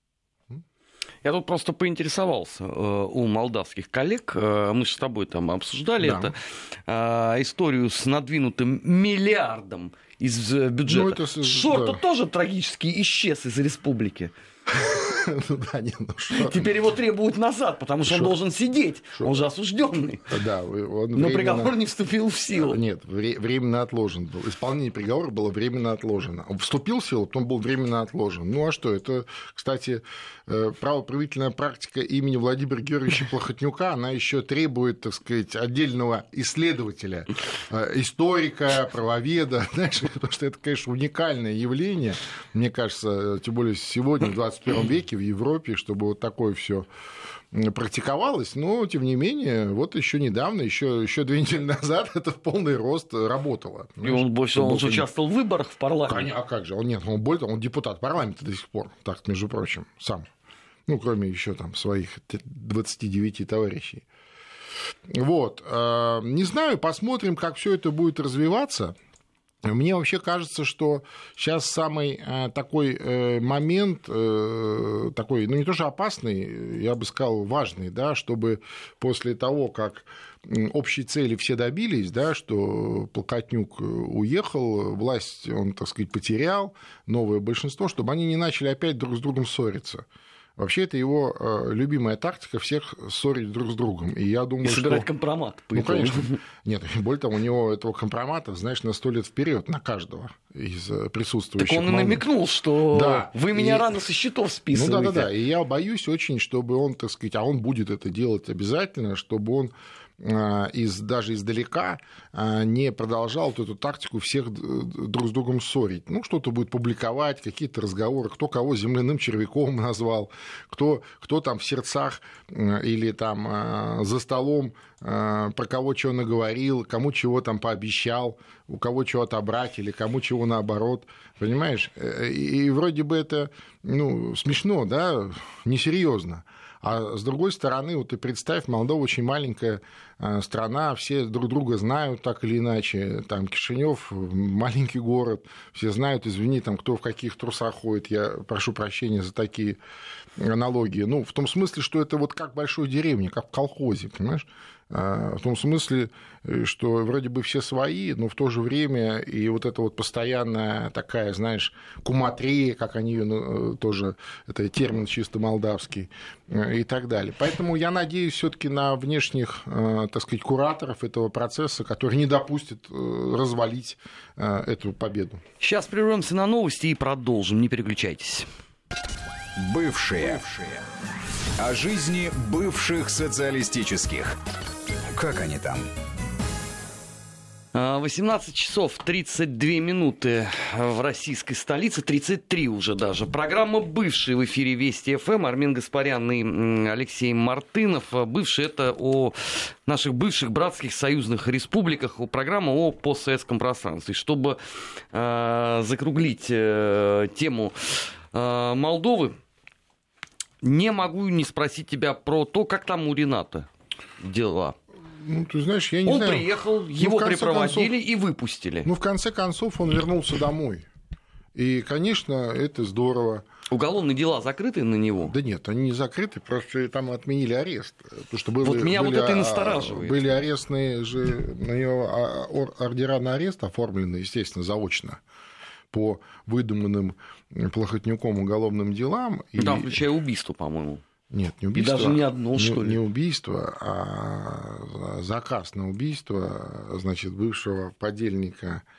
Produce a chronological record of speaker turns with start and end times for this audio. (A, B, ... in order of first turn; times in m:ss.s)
0:01.2-0:14.3 A
0:06.0-0:06.3 B
0:10.9-0:12.0 B
0:14.7-0:16.7 B
0:16.3-0:20.3 A
0:18.0-0:18.3 B
0:20.3-0:21.7 B
0:21.1-0:22.8 A
0:22.5-0:46.9 B
0:47.5-0:55.1 B
0:54.0-0:56.3 A
0:56.1-1:00.2 B
1:00.9-1:04.0 B
1:05.1-1:08.9 B
1:09.6-1:30.0 B
1:30.6-1:35.1 B
1:34.6-1:36.4 A
1:35.7-1:42.2 B
1:41.6-1:45.3 A
1:42.9-1:43.9 B
1:44.7-2:29.8 B
2:30.4-2:55.4 B
2:55.6-2:58.5 A
2:59.6-3:00.8 C
3:01.6-3:04.4 C
3:05.1-3:05.9 C
3:07.7-3:24.6 A
3:25.1-3:29.4 A
3:30.6-3:33.7 A
3:34.2-3:34.8 A
3:35.0-3:37.9 B
3:36.0-3:38.9 A
3:38.8-3:40.8 B
3:41.5-3:43.4 B
3:43.7-3:45.3 A
3:45.2-3:55.2 B
3:48.6-3:50.2 A
3:55.9-4:00.0 B
3:59.6-4:01.0 A
4:01.3-4:08.8 B
4:01.7-4:03.0 A